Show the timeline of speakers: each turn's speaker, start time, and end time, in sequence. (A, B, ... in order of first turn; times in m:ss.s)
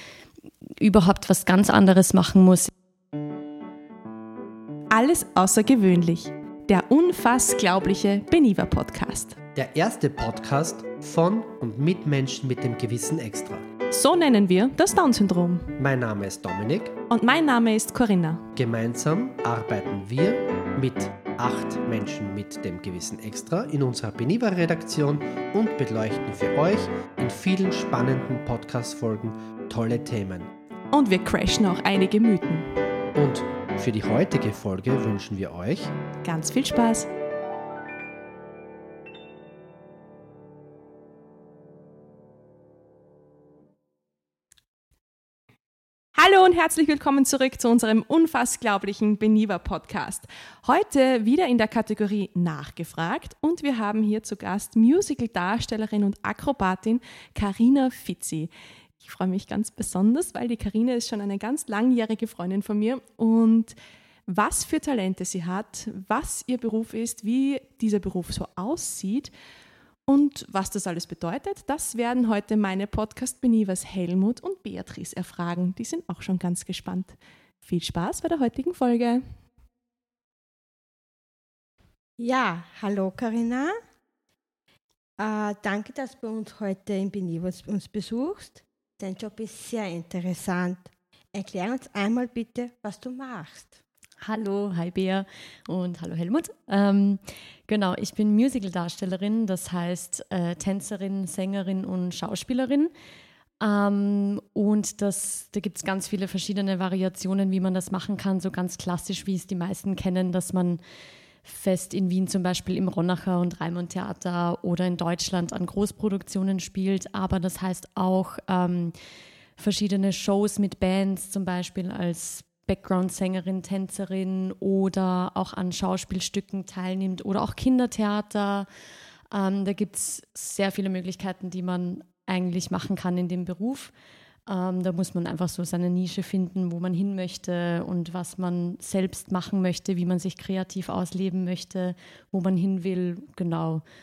0:00.8-0:02.7 A
0:04.9-0:09.4 B
0:09.6-0:13.6 C
0:13.9-0:15.8 B
0:15.8-0:16.9 C
0:17.1-0:18.5 B
0:18.5-0:30.5 C
0:30.9-0:32.7 B
0:33.1-0:35.9 C
0:36.2-0:37.1 B
0:46.2-0:58.5 B
0:59.0-1:03.7 B
1:04.3-1:09.3 B
1:10.1-1:19.2 B
1:22.2-1:23.8 D
1:25.2-1:33.8 D
1:34.2-1:42.9 A
1:43.6-1:50.8 A
1:51.4-1:58.9 A
1:59.6-2:08.7 A
2:09.3-2:13.9 A
2:14.5-2:23.8 A